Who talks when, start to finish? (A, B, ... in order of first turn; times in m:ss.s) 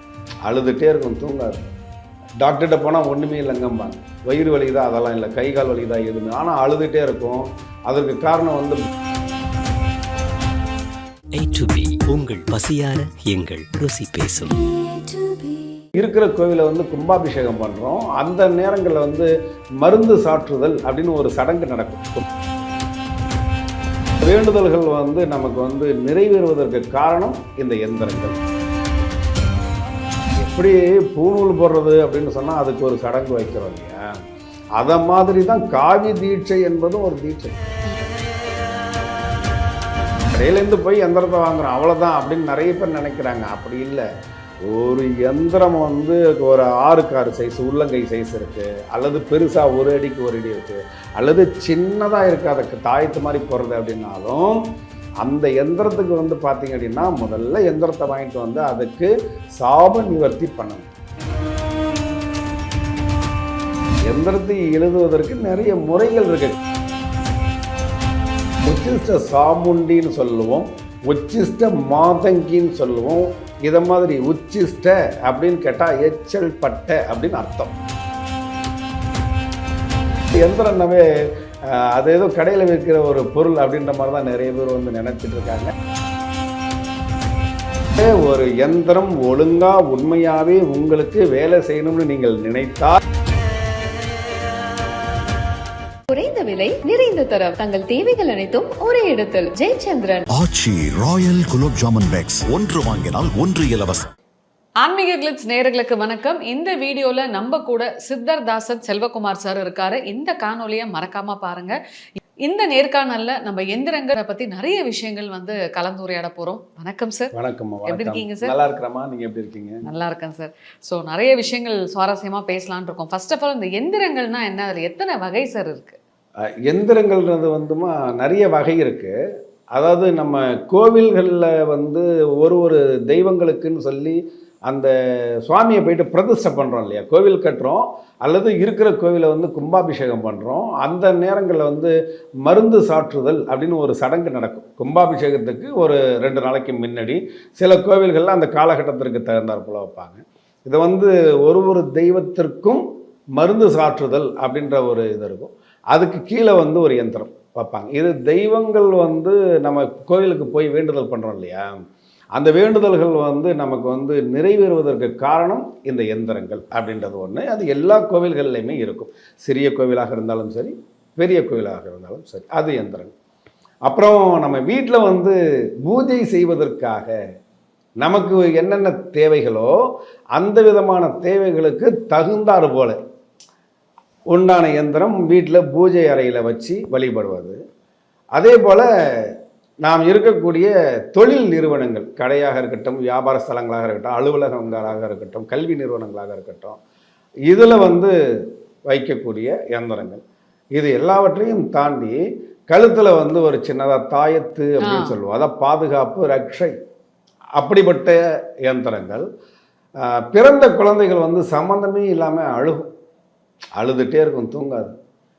0:00.4-0:01.6 A
0:02.4-0:08.8 A
0:11.4-0:14.6 B
0:16.0-0:19.3 A
0:19.8-0:22.2 A
0:24.2-0:28.4 A
0:30.4-0:34.1 A
0:34.8-0:37.6 A
0:40.3-0:44.0 A
0:44.7-0:54.6 A
0:55.2-1:00.9 A
1:04.0-1:06.5 A
1:08.6-1:17.7 A
1:20.3-1:21.1 A
1:21.6-1:25.7 A
1:28.0-1:33.0 A
1:36.1-1:40.2 C
1:40.3-1:44.0 D
1:44.8-1:51.8 E
1:52.4-1:57.3 E
1:57.3-1:59.8 A
1:57.8-1:58.5 E
1:59.8-2:06.0 E
2:06.6-2:09.1 A
2:09.7-2:14.9 A
2:15.4-2:21.9 A
2:22.4-2:32.8 A
2:33.4-2:41.7 A
2:42.3-2:53.1 A
2:53.8-2:57.1 A
2:58.0-2:59.7 A
3:00.3-3:03.0 A
3:04.3-3:07.6 A
3:08.3-3:16.8 A
3:17.5-3:18.1 A
3:18.9-3:20.2 A
3:20.7-3:22.2 A
3:22.7-3:26.7 A
3:24.8-3:25.1 E
3:27.6-3:29.2 A
3:30.0-3:32.8 A
3:33.8-3:34.9 A